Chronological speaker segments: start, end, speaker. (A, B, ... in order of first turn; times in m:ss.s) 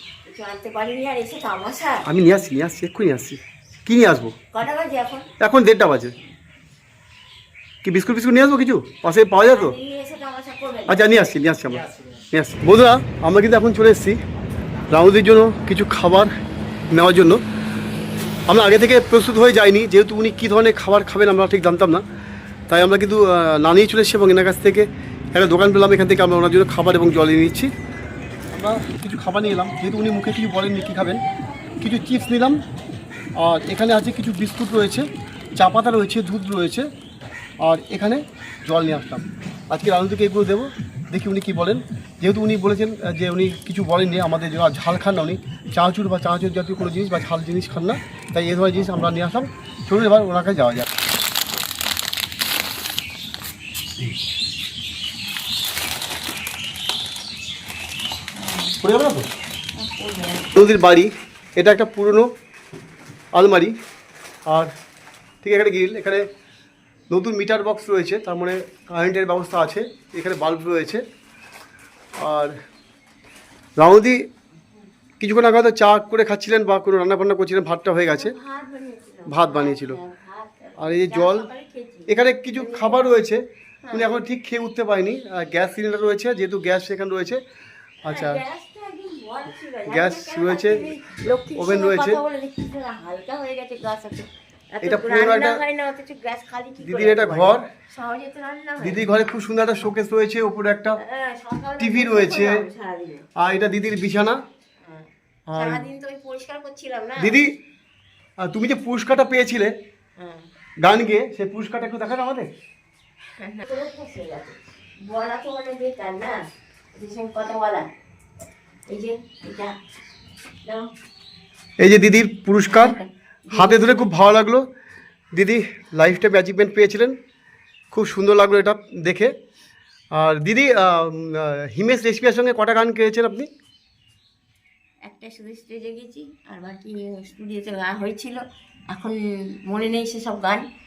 0:00.3-0:02.1 A
0:02.1-0:04.4 B
0:04.5-0:05.3 A
0:05.4-0:06.1 B
0:07.8-0:09.8 B
0:09.5-0:11.0 A
0:10.9-0:14.2 B
0:14.9-0:16.3 B
0:16.9-0:17.4 B
0:18.5-0:22.0 B
0:22.7-0:27.7 B
0:28.5-0:31.2 B
0:31.8-0:32.6 B
0:33.4-0:36.9 B
0:37.6-0:50.9 B
0:58.4-0:58.8 A
0:58.8-0:59.3 B
0:59.8-1:00.5 A
1:00.6-1:02.3 B
1:03.3-1:03.8 B
1:05.4-1:06.3 B
1:07.1-1:11.0 B
1:12.2-1:12.6 B
1:13.8-1:14.2 B
1:15.2-1:18.4 B
1:18.0-1:23.1 A
1:19.3-1:20.0 B
1:20.8-1:21.5 B
1:22.1-1:27.4 B
1:23.8-1:24.1 A
1:28.0-1:28.4 B
1:28.0-1:39.0 A
1:29.9-1:30.9 B
1:31.6-1:32.2 B
1:34.8-1:35.6 B
1:36.8-1:37.7 B
1:38.8-1:41.0 B
1:41.0-1:43.3 A
1:41.8-1:42.7 B
1:43.4-1:44.4 B
1:44.8-1:47.4 A
1:45.5-1:45.8 B
1:47.2-1:47.5 B
1:48.4-1:49.7 B
1:50.2-1:50.5 A
1:50.8-1:52.5 B
1:53.4-1:57.9 A
1:58.9-1:59.8 A
2:00.7-2:00.9 A
2:01.8-2:03.0 B
2:02.7-2:03.9 A
2:03.5-2:04.6 B
2:05.4-2:07.2 B
2:07.9-2:09.3 B
2:10.2-2:13.5 B
2:15.0-2:20.6 A